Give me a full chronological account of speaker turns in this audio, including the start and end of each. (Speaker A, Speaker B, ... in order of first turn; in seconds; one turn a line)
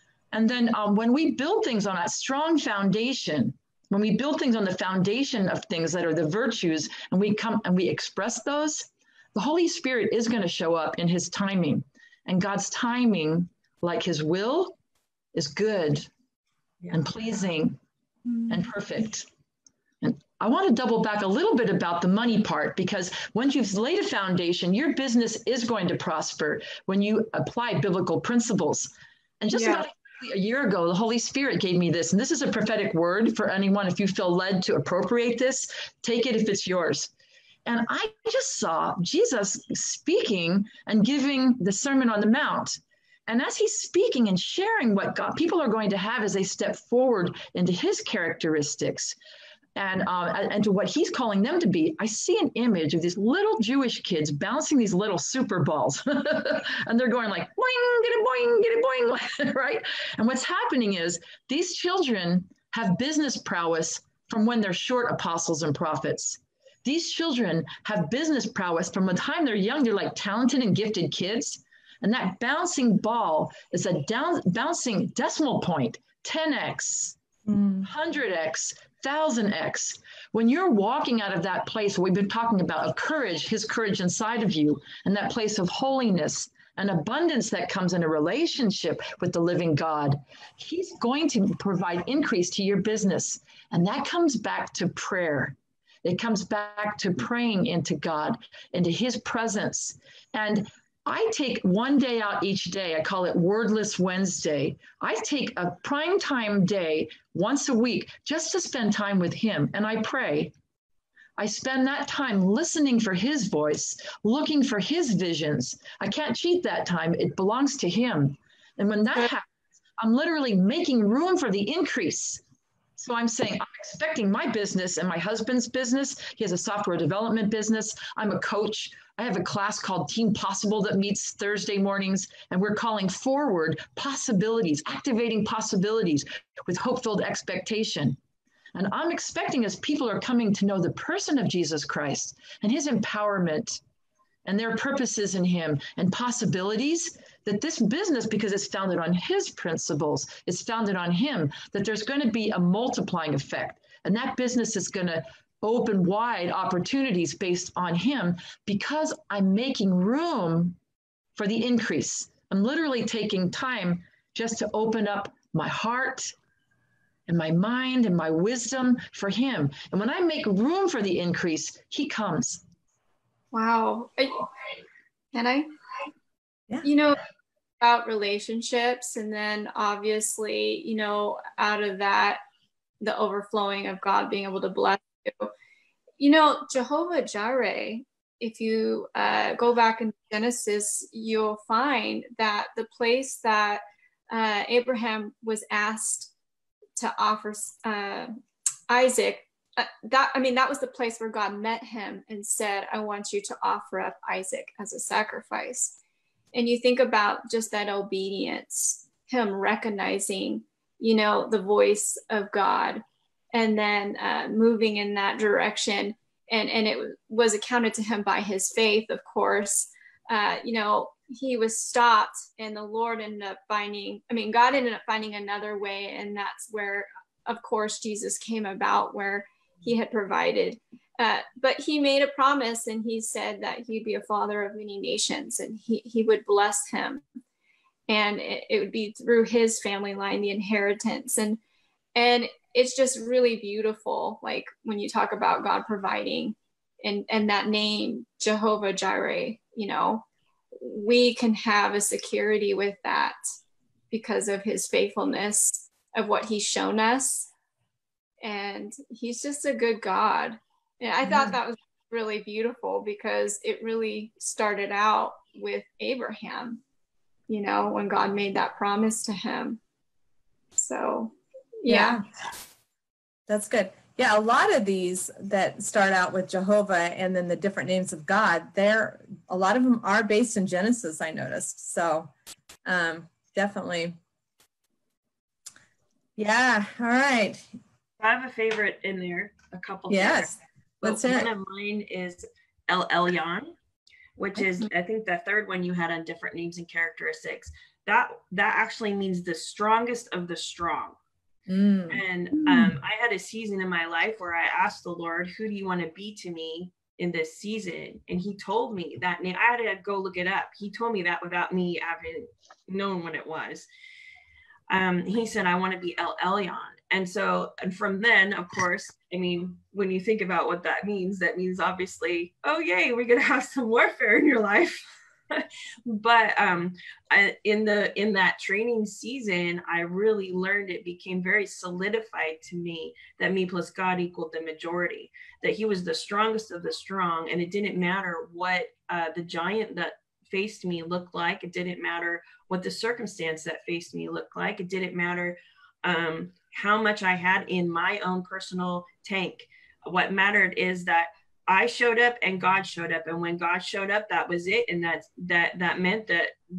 Speaker A: 0.3-14.8
Speaker A: 15.3-16.1
Speaker B: 16.8-17.1
Speaker A: 16.9-17.8
Speaker C: 18.3-18.6
Speaker A: 18.5-19.3
Speaker A: 20.0-37.1
Speaker C: 29.5-29.8
Speaker A: 37.7-49.2
Speaker A: 49.8-77.2
Speaker D: 77.5-77.9
Speaker A: 77.8-110.5
Speaker A: 111.4-122.4
Speaker A: 123.0-138.2
Speaker A: 138.7-143.8
Speaker A: 144.4-160.8
Speaker A: 161.4-166.3
Speaker A: 167.3-172.6
Speaker C: 173.5-174.5
Speaker C: 175.3-175.7
Speaker C: 176.8-177.2
Speaker C: 177.8-182.4
Speaker C: 183.0-185.5
Speaker C: 186.2-196.3
Speaker C: 197.0-198.3
Speaker C: 198.9-206.0
Speaker C: 206.5-237.2
Speaker C: 238.1-241.6
Speaker C: 242.2-253.4
Speaker C: 254.1-257.5
Speaker C: 258.4-266.8
Speaker D: 261.2-261.6
Speaker C: 267.5-269.8
Speaker C: 270.8-272.2
Speaker D: 271.9-272.2
Speaker D: 273.5-282.3
Speaker D: 282.9-284.2
Speaker D: 286.4-287.7
Speaker B: 288.2-293.8
Speaker D: 290.1-291.5
Speaker B: 294.4-301.2
Speaker D: 301.7-302.2
Speaker B: 302.1-313.9
Speaker B: 314.9-356.5